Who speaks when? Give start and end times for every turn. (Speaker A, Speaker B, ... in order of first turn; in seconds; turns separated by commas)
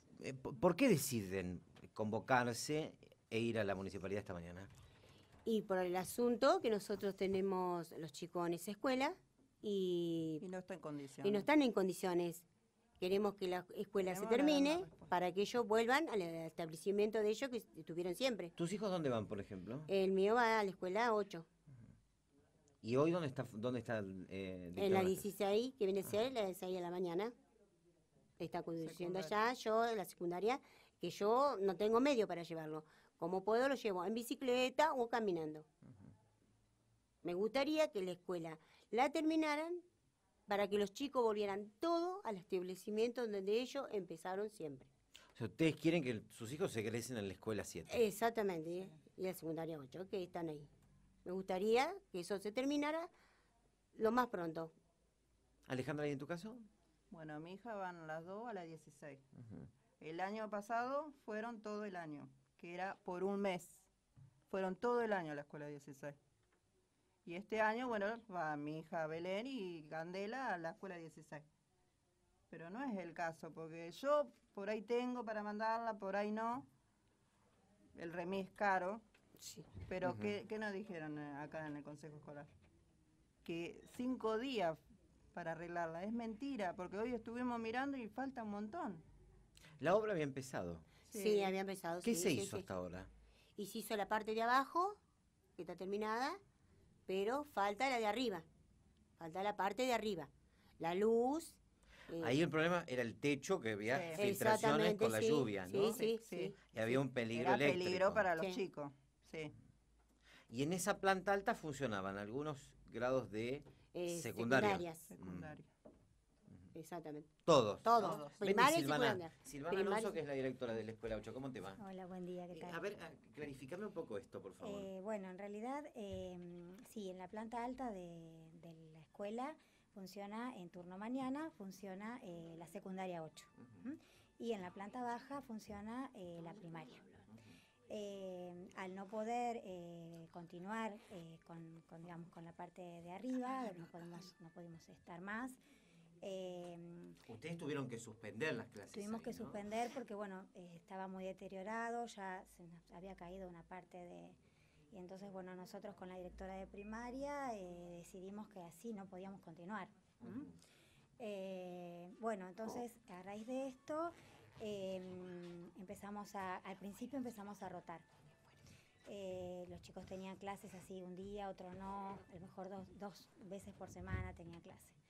Speaker A: 0.2-4.7, Speaker B: 5.5-10.5, Speaker C: 10.4-11.5, Speaker B: 11.2-12.4, Speaker B: 13.0-18.5, Speaker C: 13.9-15.2, Speaker A: 18.6-19.9, Speaker B: 19.9-21.5, Speaker A: 22.8-25.3, Speaker B: 24.7-27.3, Speaker B: 28.4-35.7, Speaker C: 28.8-29.5, Speaker B: 37.2-39.8, Speaker B: 40.5-44.9, Speaker A: 45.4-48.0, Speaker B: 47.9-50.7, Speaker C: 48.8-49.0, Speaker B: 51.2-53.1, Speaker B: 53.9-54.7, Speaker A: 55.7-56.7, Speaker C: 57.1-59.2, Speaker C: 60.0-63.9, Speaker C: 64.5-66.2, Speaker C: 67.2-71.5, Speaker C: 72.5-76.7, Speaker C: 78.0-79.0, Speaker B: 79.4-79.7, Speaker C: 79.8-82.5, Speaker A: 80.0-80.3, Speaker C: 83.4-84.8, Speaker C: 85.3-89.0, Speaker A: 89.8-91.0, Speaker B: 91.0-92.7, Speaker C: 91.0-91.6, Speaker A: 92.0-93.1, Speaker B: 93.5-95.0, Speaker B: 95.6-96.4, Speaker B: 97.1-98.5, Speaker B: 99.2-102.4, Speaker A: 102.1-105.9, Speaker C: 103.8-104.5, Speaker B: 104.1-106.6, Speaker C: 105.7-109.5, Speaker A: 106.6-108.3, Speaker A: 110.5-115.5, Speaker B: 113.9-115.1, Speaker C: 114.9-115.7, Speaker B: 116.7-117.3, Speaker A: 117.4-121.8, Speaker B: 117.8-120.2, Speaker C: 117.9-118.5, Speaker D: 121.8-122.8, Speaker A: 122.5-124.9, Speaker D: 124.6-137.0, Speaker D: 137.9-145.6, Speaker D: 146.2-147.2, Speaker A: 147.3-149.6, Speaker D: 148.9-154.4, Speaker D: 154.9-160.6, Speaker D: 161.2-168.1, Speaker D: 169.1-175.0